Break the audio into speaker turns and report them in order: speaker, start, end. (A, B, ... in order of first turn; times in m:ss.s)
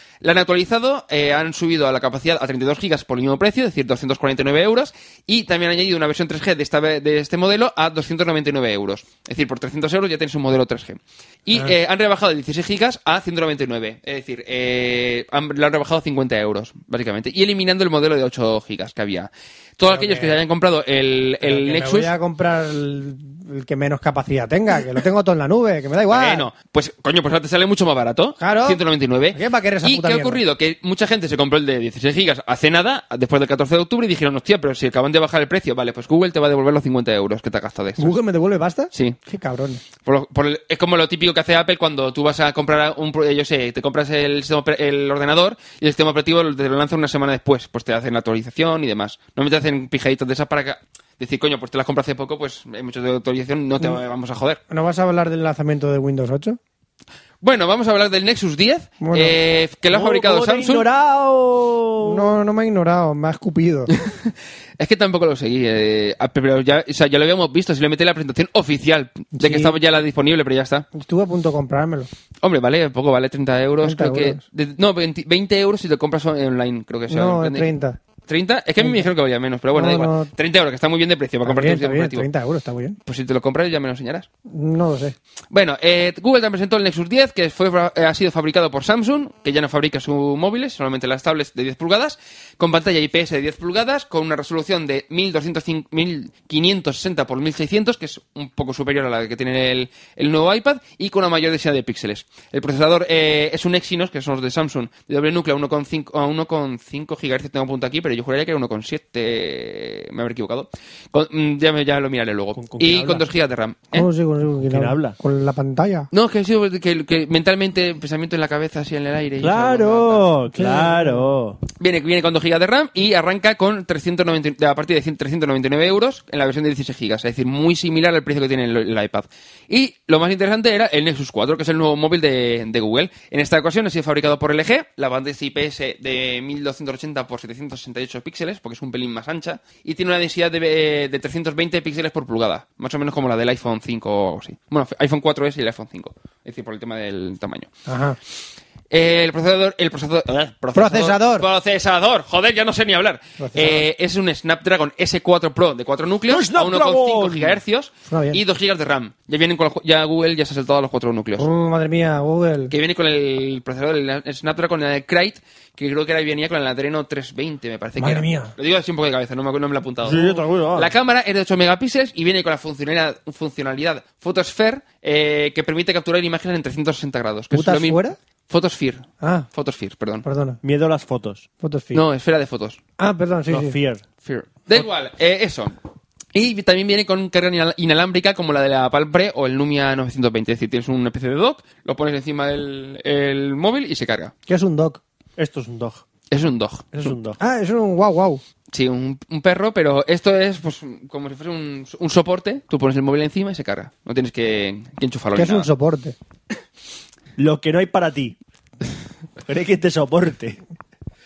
0:00.2-0:22.1 A
0:19.9-0:20.4 B
0:21.4-0:26.5 B
0:26.1-0:38.2 A
0:28.4-0:28.8 B
0:29.3-0:30.4 B
0:38.0-0:39.8 B
0:40.0-0:54.6 A
0:54.7-0:56.6 B
0:57.4-1:00.9 A
0:59.0-0:59.4 B
0:59.9-1:02.4 C
1:02.0-1:03.9 B
1:03.9-1:10.9 A
1:09.3-1:09.8 B
1:10.9-1:12.1 B
1:12.4-1:17.7 A
1:13.8-1:14.4 B
1:17.1-1:18.0 B
1:18.3-1:22.3 A
1:18.8-1:19.0 B
1:19.7-1:20.3 B
1:21.4-1:23.0 B
1:23.1-1:24.3 A
1:24.5-1:25.2 B
1:25.5-1:54.1 A
1:52.6-1:53.3 C
1:53.9-1:56.1 B
1:54.6-1:55.2 C
1:56.1-2:00.3 A
1:59.4-2:01.6 C
2:00.5-2:01.3 B
2:01.8-2:27.7 A
2:27.9-2:28.2 B
2:28.9-2:41.5 A
2:30.8-2:31.5 B
2:33.4-2:33.8 B
2:36.3-2:37.6 C
2:38.1-2:38.4 B
2:41.4-2:42.7 B
2:42.7-3:00.2 A
2:48.0-2:48.5 B
2:50.0-2:50.9 C
2:57.5-2:58.2 B
2:59.2-2:59.5 B
3:00.2-3:00.6 B
3:00.6-3:01.4 C
3:01.6-3:02.0 B
3:01.9-3:02.8 A
3:03.0-3:03.8 B
3:03.5-3:04.0 C
3:04.2-3:05.8 A
3:06.3-3:14.3 A
3:14.5-3:15.0 B
3:15.4-3:16.0 C
3:16.3-3:16.9 A
3:16.9-3:17.4 C
3:17.4-3:18.4 B
3:18.7-3:25.7 A
3:25.4-3:26.2 B
3:27.4-3:28.4 C
3:29.4-3:30.6 C